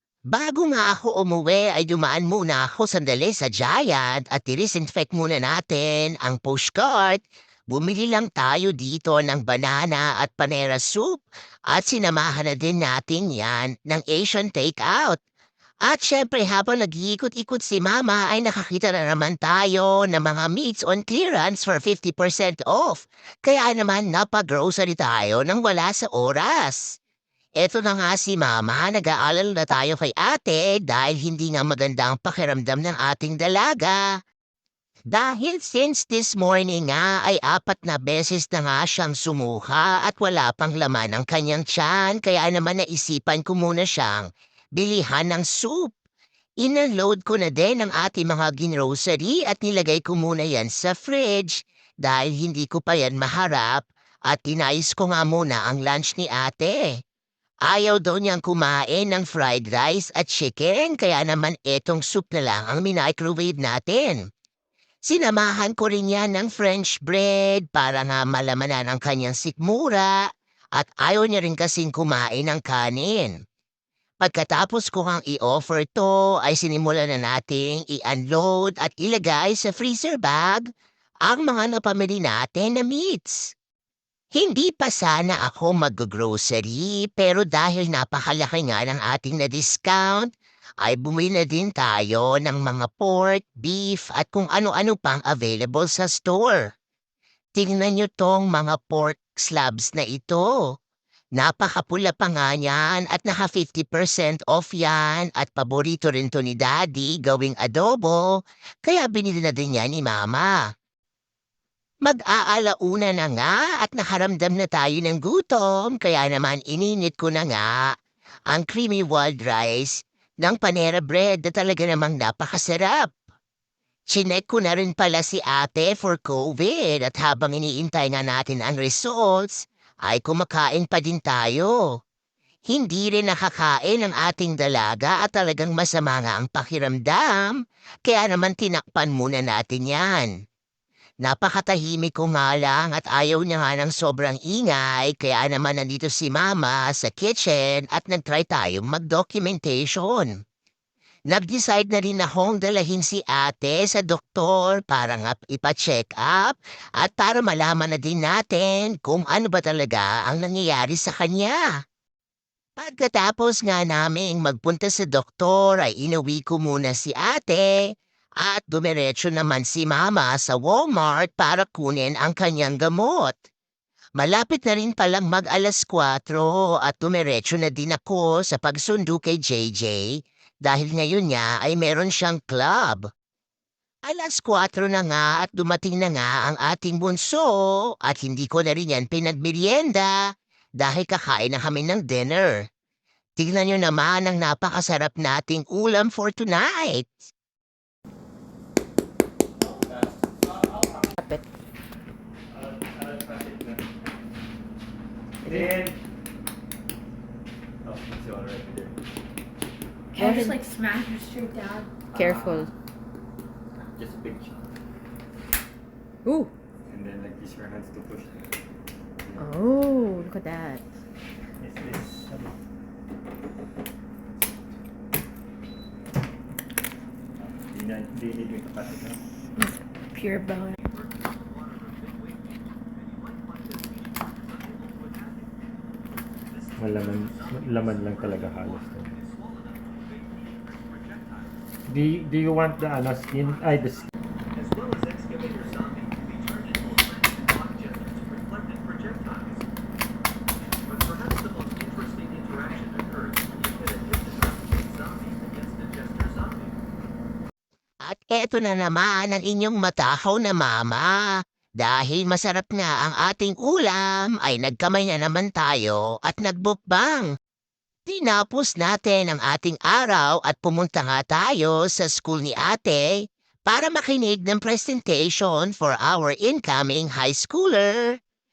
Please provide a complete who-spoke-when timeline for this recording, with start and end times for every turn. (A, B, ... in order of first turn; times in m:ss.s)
0:00.3-0:15.2 A
0:15.9-0:27.0 A
0:27.6-0:34.0 A
0:35.1-0:45.9 A
0:46.6-0:57.0 A
0:57.6-1:04.2 A
1:05.0-1:10.2 A
1:10.8-1:13.4 A
1:14.2-1:20.6 A
1:21.3-1:23.5 A
1:24.3-1:30.3 A
1:30.8-1:36.7 A
1:37.6-1:40.5 A
1:41.4-1:48.2 A
1:48.8-1:50.6 A
1:52.0-1:57.9 A
1:58.5-2:03.1 A
2:04.1-2:11.8 A
2:12.7-2:17.5 A
2:18.0-2:20.3 A
2:21.2-2:30.3 A
2:31.3-2:41.6 A
2:42.8-2:47.9 A
2:48.4-2:53.4 A
2:54.2-3:03.1 A
3:04.1-3:10.2 A
3:10.8-3:12.7 A
3:13.4-3:17.3 A
3:19.7-3:20.8 B
3:22.5-3:23.8 B
3:25.4-3:26.0 B
3:27.8-3:29.0 B
3:30.1-3:32.0 C
3:30.2-3:30.6 D
3:32.1-3:32.7 B
3:32.1-3:32.7 D
3:33.9-3:34.7 B
3:36.2-3:36.5 D
3:36.9-3:38.4 B
3:39.4-3:40.8 D
3:41.6-3:42.5 B
3:47.6-3:49.2 B
3:49.6-3:50.8 C
3:50.5-3:55.5 E
3:56.5-4:01.5 E
3:56.8-3:59.2 B
4:01.9-4:04.1 B
4:02.9-4:09.6 E
4:10.9-4:16.7 E
4:18.0-4:21.2 A
4:21.8-4:27.3 A
4:28.1-4:33.1 A
4:33.7-4:38.2 A